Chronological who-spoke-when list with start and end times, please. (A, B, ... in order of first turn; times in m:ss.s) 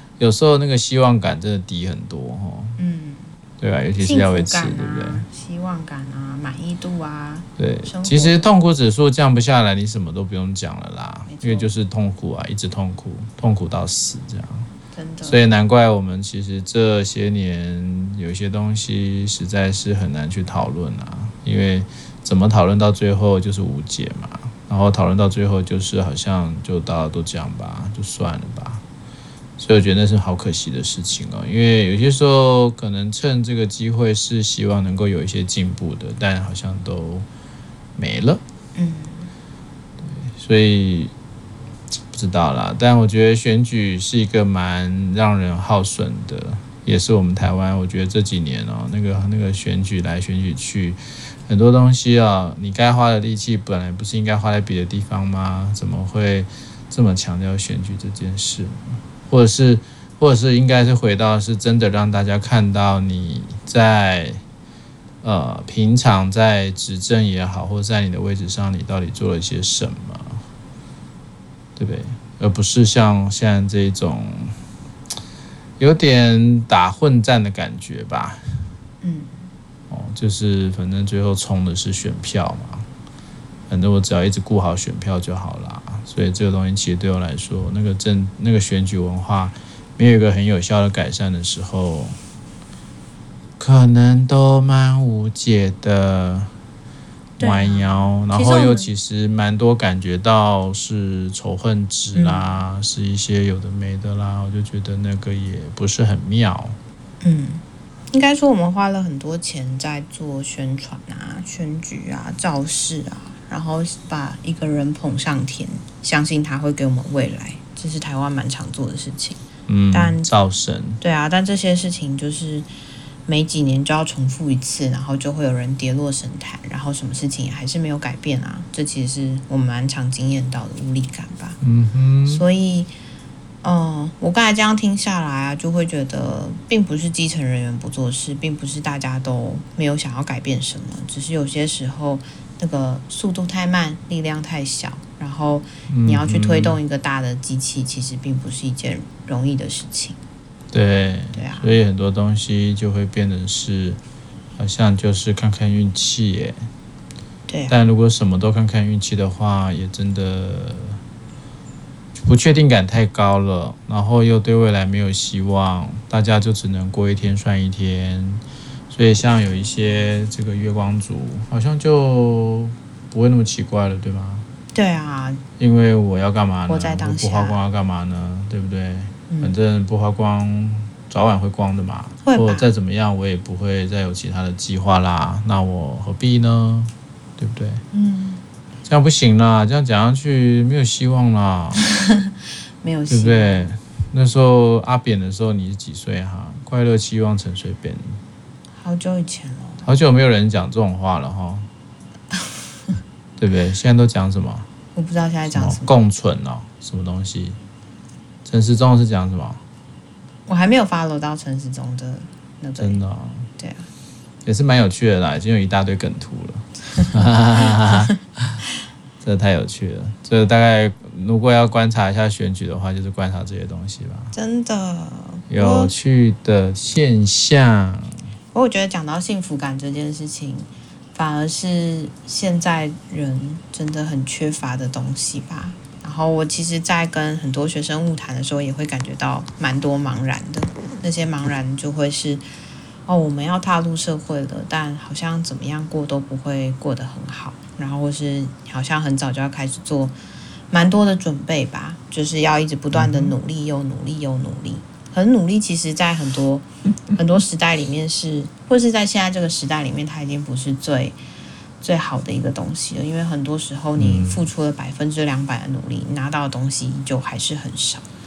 0:00.2-0:02.8 A
0:02.8-0:03.3 B
0:03.6-0:05.2 A
0:04.0-0:08.4 B
0:07.6-0:14.7 A
0:11.3-0:11.7 B
0:14.9-0:15.4 B
0:15.2-0:28.8 A
0:29.6-0:37.3 A
0:38.0-0:38.4 A
0:38.7-0:39.3 B
0:40.2-0:41.1 A
0:42.1-1:04.4 A
1:05.2-1:10.4 A
1:11.8-1:14.6 A
1:15.8-1:18.4 A
1:19.0-1:19.4 B
1:19.9-1:22.9 A
1:23.7-1:32.2 A
1:33.6-1:36.5 A
1:37.4-1:38.9 B
1:37.4-1:46.8 A
1:42.1-1:42.6 B
1:47.2-1:59.4 B
1:59.7-2:01.0 A
1:59.9-2:00.3 B
2:01.0-2:02.7 B
2:03.3-2:11.6 B
2:11.6-2:12.4 A
2:12.2-2:12.9 B
2:13.6-2:30.2 B
2:25.9-2:26.8 A
2:30.7-2:34.0 A
2:31.3-2:31.7 B
2:34.6-2:36.6 A
2:37.5-2:37.7 B
2:37.7-2:41.0 A
2:42.2-2:54.4 A
2:54.7-2:55.4 B
2:55.6-3:07.8 A
2:56.7-2:57.6 B
2:59.3-2:59.5 B
3:02.2-3:02.7 B
3:07.9-3:08.4 B
3:08.8-3:11.8 A
3:11.8-3:13.7 B
3:13.1-3:18.2 A
3:18.8-3:19.9 B
3:19.8-3:21.7 A
3:23.4-3:24.7 A
3:24.9-3:25.9 B
3:25.5-3:27.6 A
3:28.4-3:29.6 A
3:30.5-3:33.0 B
3:32.8-3:33.5 A
3:33.6-3:33.9 B
3:34.4-3:38.6 A
3:39.2-3:44.3 A
3:44.3-3:45.9 B
3:45.5-3:48.2 A
3:48.5-4:02.4 B
4:03.1-4:10.1 B
4:10.7-4:21.2 B
4:12.9-4:13.3 A
4:21.8-4:28.0 B
4:24.0-4:24.5 A